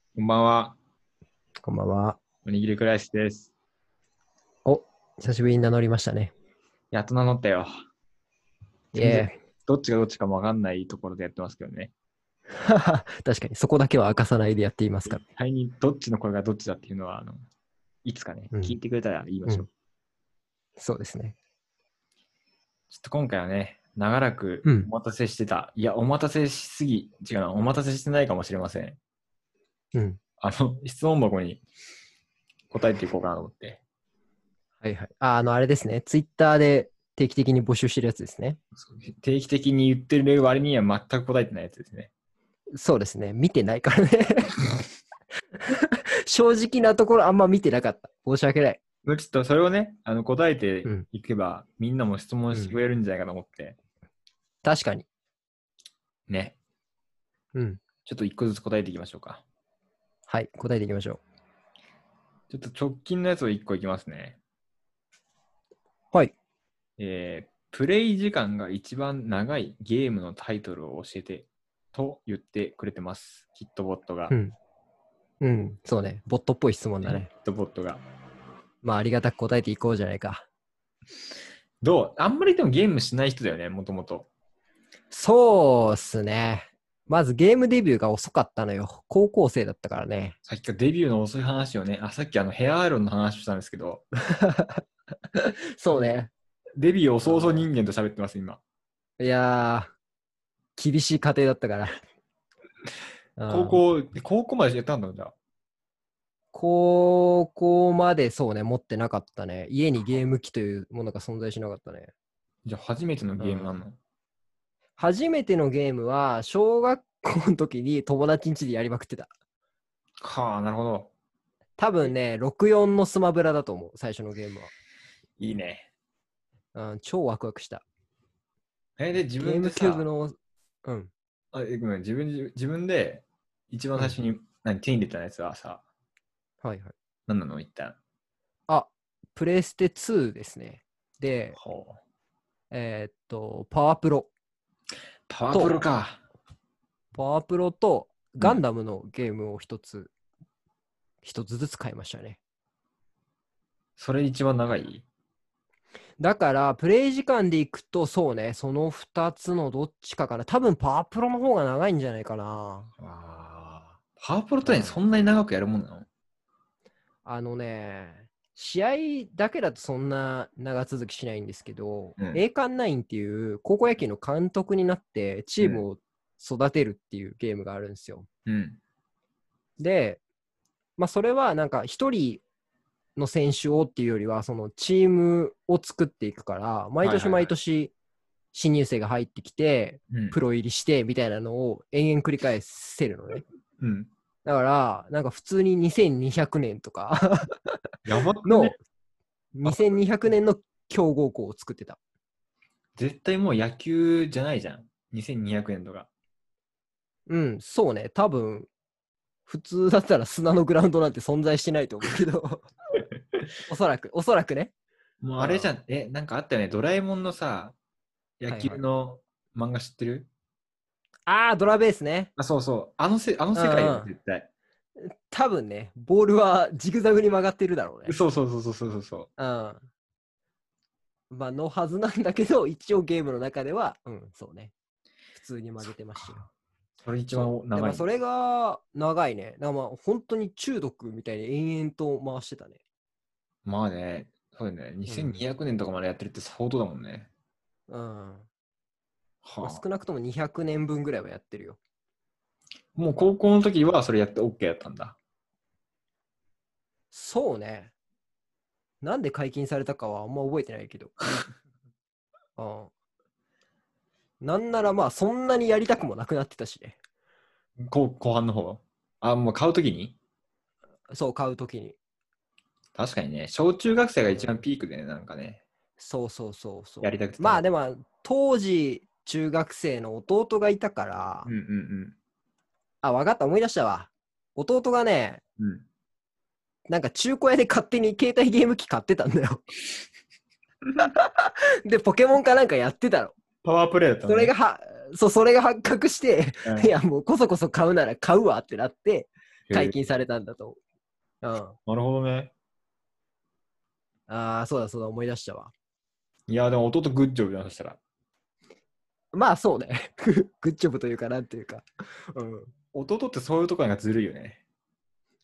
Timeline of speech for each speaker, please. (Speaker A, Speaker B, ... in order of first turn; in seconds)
Speaker A: 0.1-0.8, 2.4-3.5, 6.9-7.7, 8.9-11.9, 15.1-17.4, 18.0-19.7, 22.9-29.0, 30.4-31.6, 32.7-33.8, 38.8-42.1, 49.0-53.8, 56.3-56.6, 58.0-59.4, 62.5-64.4, 67.0-74.3, 77.0-78.0, 81.8-84.3, 90.5-94.0, 96.8-98.6, 103.5-105.3, 112.6-114.0, 120.2-121.1, 125.4-125.9, 129.0-130.1, 131.5-135.8, 137.3-137.9, 141.5-142.0, 145.3-146.2, 154.0-155.0, 163.0-166.1, 178.4-178.8, 187.0-187.5, 190.1-190.4, 193.8-194.1, 198.1-198.8, 199.6-199.9, 203.0-206.1, 215.2-217.8, 218.4-220.3, 222.4-224.5, 228.1-229.3, 237.0-238.1, 243.7-247.3, 249.4-249.8, 252.9-255.2, 267.8-270.1, 272.9-275.6, 277.0-277.6, 281.4-282.1, 285.6-285.8, 293.6-294.5, 296.6-296.9, 299.7-300.0, 301.9-302.5, 306.5-308.0, 312.9-314.6
Speaker B: 1.6-2.2, 4.6-6.3, 8.9-9.3, 12.5-15.2, 18.5-18.8, 20.8-21.4, 24.6-24.9, 29.9-30.2, 34.8-38.6, 42.7-44.7, 45.6-48.8, 52.5-52.8, 54.6-55.1, 57.5-57.8, 60.3-61.2, 74.3-74.5, 75.4-77.3, 78.8-80.5, 85.1-90.3, 94.3-94.8, 95.3-96.3, 97.2-97.7, 99.2-99.9, 100.8-102.0, 103.4-103.8, 106.5-112.1, 113.4-113.8, 115.0-119.3, 121.8-124.7, 126.7-127.8, 129.4-131.1, 136.6-136.9, 138.7-141.6, 142.7-144.3, 145.5-145.8, 147.1-150.1, 151.2-152.4, 156.2-162.9, 164.6-165.0, 167.2-178.3, 179.8-180.2, 181.0-182.4, 183.2-187.9, 188.5-193.4, 194.4-197.8, 198.4-198.8, 199.5-202.0, 207.3-208.7, 209.5-212.7, 213.7-214.7, 215.4-215.7, 218.5-218.8, 221.3-222.3, 223.5-224.1, 225.0-228.2, 229.4-229.9, 231.3-234.7, 235.3-236.4, 237.3-242.8, 245.1-245.4, 247.9-248.5, 249.6-251.8, 257.1-257.9, 259.0-261.4, 262.6-262.9, 264.4-267.0, 271.1-272.0, 274.2-274.6, 276.0-281.5, 283.0-285.4, 286.9-289.7, 291.0-293.3, 294.2-300.8, 301.4-301.8, 304.3-305.7, 309.3-312.7